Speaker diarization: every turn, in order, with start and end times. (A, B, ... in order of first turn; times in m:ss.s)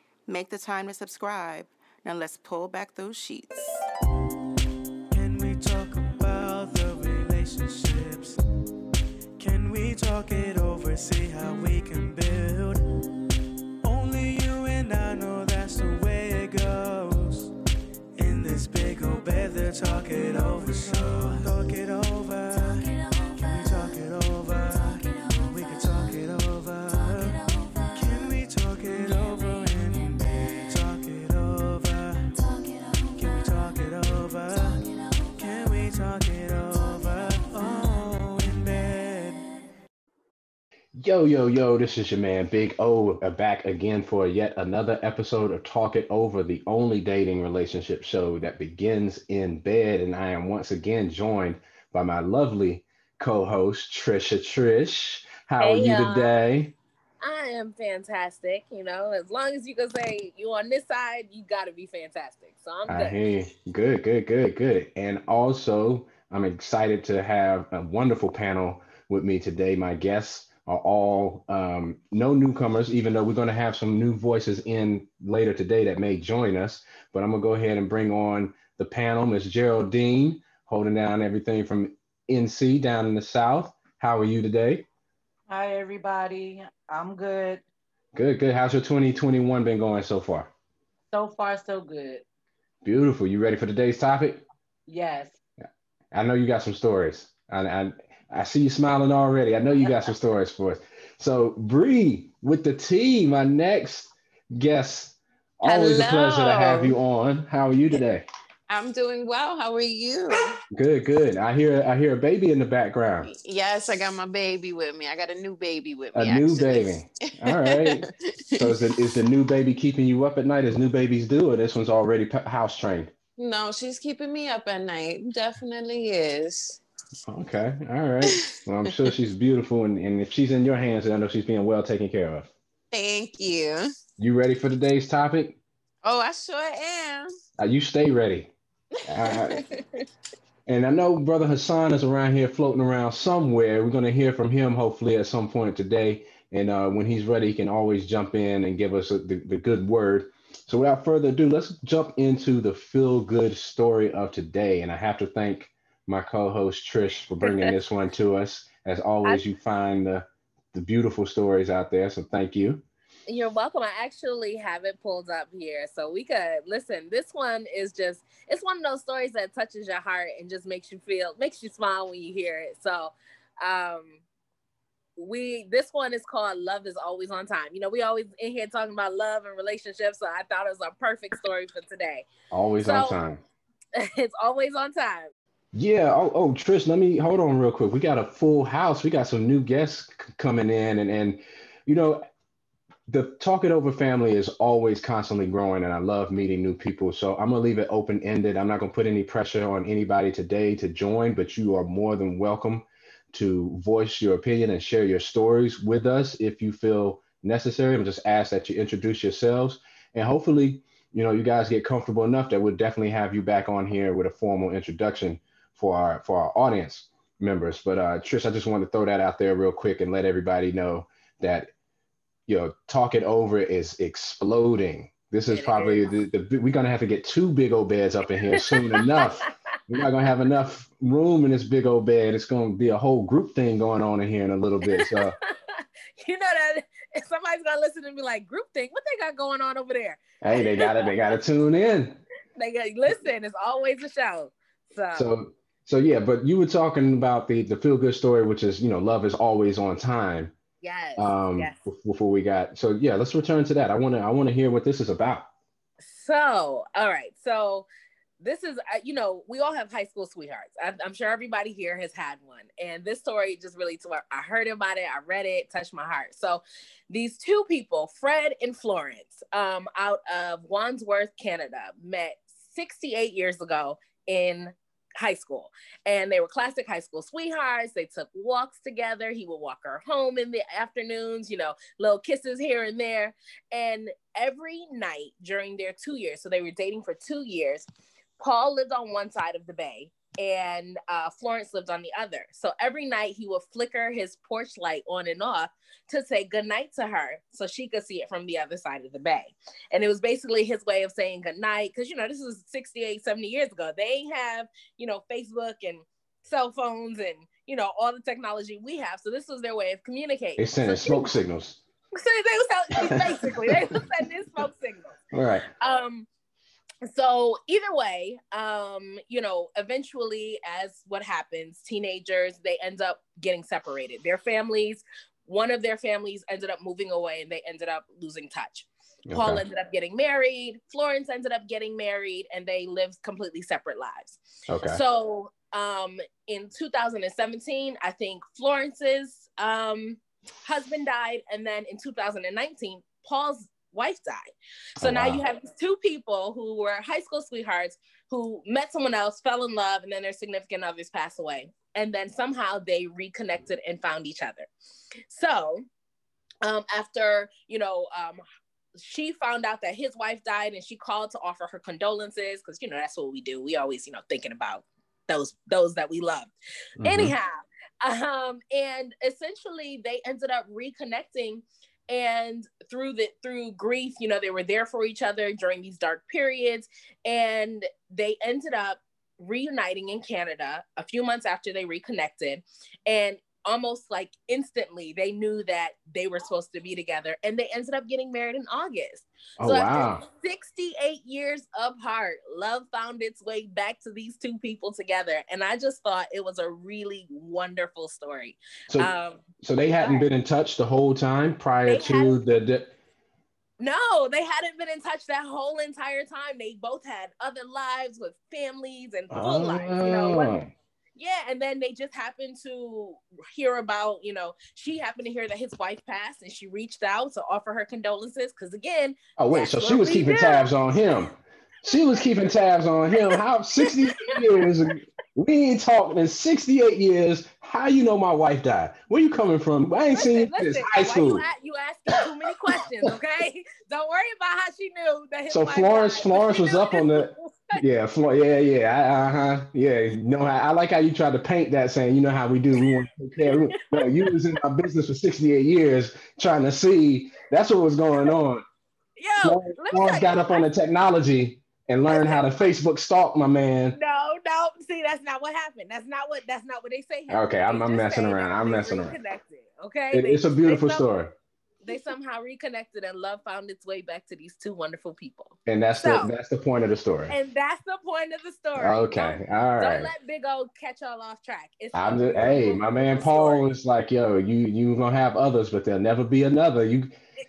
0:00.3-0:03.8 A
0:05.1-0:08.4 B
0:09.4-0:12.8 B
0:13.8-0:17.5 B
0:18.1-0:32.3 B
0:33.1-0:39.5 B
0:41.0-0:56.7 C
0:55.6-0:56.4 D
0:57.2-1:03.2 D
1:02.9-1:24.8 C
1:25.5-1:27.6 E
1:28.1-1:30.5 C
1:31.1-1:32.2 E
1:32.8-1:34.4 C
1:34.9-1:35.4 E
1:36.1-1:48.2 C
1:45.6-1:46.9 F
1:48.7-1:50.6 F
1:50.7-1:53.3 C
1:53.2-1:59.0 F
1:56.1-2:03.1 C
2:03.4-2:06.8 F
2:07.3-2:12.5 C
2:08.3-2:08.6 F
2:12.9-2:13.9 F
2:14.2-2:15.6 C
2:16.0-2:17.3 F
2:17.6-2:18.5 C
2:19.0-2:19.6 C
2:19.2-2:19.7 F
2:20.7-2:42.8 C
2:37.4-2:37.7 D
2:43.3-2:54.2 D
2:55.2-3:02.3 D
3:02.5-3:03.4 C
3:02.8-3:03.2 D
3:03.9-3:05.3 D
3:05.7-3:12.3 C
3:13.1-3:41.7 C
3:42.5-3:55.4 C
3:45.5-3:46.1 D
3:48.5-3:49.4 D
3:54.9-4:01.1 D
4:00.4-4:02.2 C
4:02.6-4:05.3 D
4:05.1-4:10.5 C
4:10.8-4:11.8 D
4:11.2-4:15.5 C
4:16.0-4:17.8 D
4:18.4-4:47.9 D
4:48.4-5:11.4 D
5:10.6-5:11.8 C
5:12.1-5:15.2 D
5:13.0-5:13.8 C
5:15.3-5:15.7 C
5:15.8-5:16.3 D
5:17.0-5:54.7 D
5:29.3-5:29.6 C
5:34.7-5:35.0 C
5:45.0-5:45.4 C
5:55.3-5:55.8 D
5:56.6-5:58.4 D
5:59.0-6:06.5 D
6:07.0-6:07.3 C
6:07.0-6:39.4 D
6:29.6-6:30.2 C
6:39.6-6:42.9 C
6:40.0-6:40.2 D
6:41.8-6:42.4 D
6:43.8-6:50.5 D
6:49.3-6:50.7 C
6:51.2-7:00.7 D
6:59.4-7:11.4 C
7:03.2-7:04.6 D
7:10.1-7:17.8 D
7:15.5-7:28.6 C
7:23.5-7:24.4 D
7:29.2-7:30.6 D
7:29.4-7:34.0 C
7:32.1-7:32.4 D
7:33.9-7:41.0 D
7:37.3-7:39.2 C
7:40.1-7:41.3 C
7:41.8-7:46.3 D
7:45.7-7:47.3 C
7:47.3-7:53.6 D
7:48.8-7:50.1 C
7:51.9-7:57.1 C